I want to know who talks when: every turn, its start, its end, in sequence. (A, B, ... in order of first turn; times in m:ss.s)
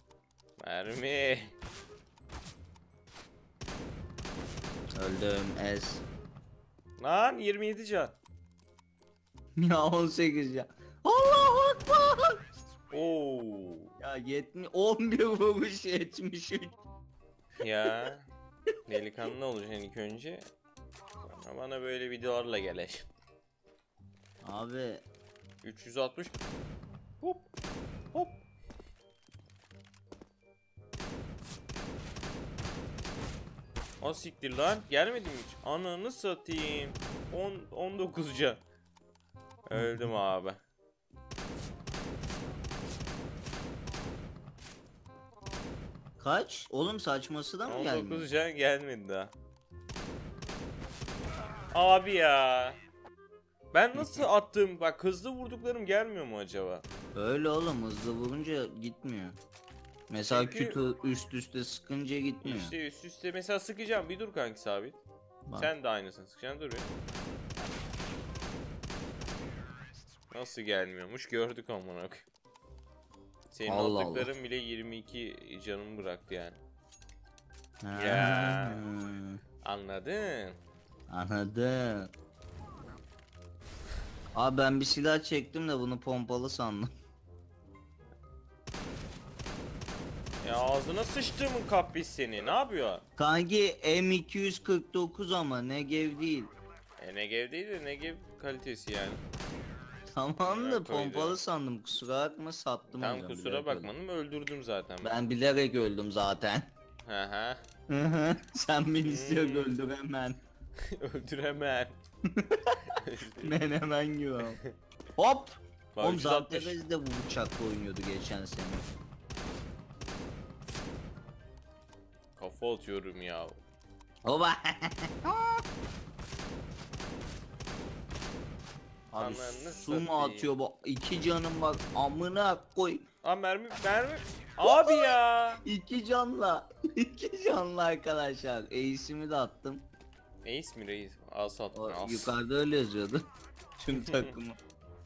0:00.6-0:01.6 A
0:05.0-0:06.0 B
0:07.0-0:08.2 A
0:09.6-0:12.4 B
0:12.9-0:13.9 A
0:14.0-0:16.8 B
0:17.6-0:18.3 A
0:18.9-0:20.5 A
0:21.2-0:23.1 A
0:24.4-0:25.0 B
0:25.6-0:26.4 A
0:27.2-0:27.5 A
0:28.1-0:28.4 A
0:34.0-0:38.6 A
0:39.7-0:40.6 A
0:39.7-0:40.2 B
0:46.2-0:48.3 B
0:47.7-0:49.3 A
0:51.7-0:52.8 A
0:53.7-0:56.8 A
0:54.0-0:54.3 B
0:57.2-0:59.4 B
1:00.1-1:02.8 B
1:00.3-1:00.8 A
1:02.4-1:05.0 A
1:05.6-1:06.9 A
1:10.3-1:12.3 A
1:13.5-1:16.6 A
1:13.7-1:14.3 B
1:17.8-1:19.4 B
1:17.9-1:18.8 A
1:19.6-1:20.6 A
1:21.1-1:22.1 B
1:24.4-1:26.9 B
1:30.4-1:33.0 A
1:33.2-1:36.5 B
1:37.0-1:39.2 A
1:40.1-1:43.9 B
1:40.4-1:41.4 A
1:43.0-1:45.2 A
1:45.0-1:46.7 B
1:47.0-1:47.6 A
1:47.9-1:50.4 B
1:49.0-1:49.7 A
1:50.9-1:52.0 A
1:52.3-1:54.6 B
1:52.9-1:53.6 A
1:55.2-1:58.8 B
1:56.0-1:56.8 A
2:02.4-2:03.6 A
2:04.2-2:05.6 B
2:09.1-2:13.0 B
2:09.2-2:10.5 A
2:13.2-2:15.6 A
2:14.6-2:19.8 B
2:20.4-2:22.3 A
2:21.7-2:23.2 B
2:23.8-2:24.6 B
2:23.9-2:24.4 A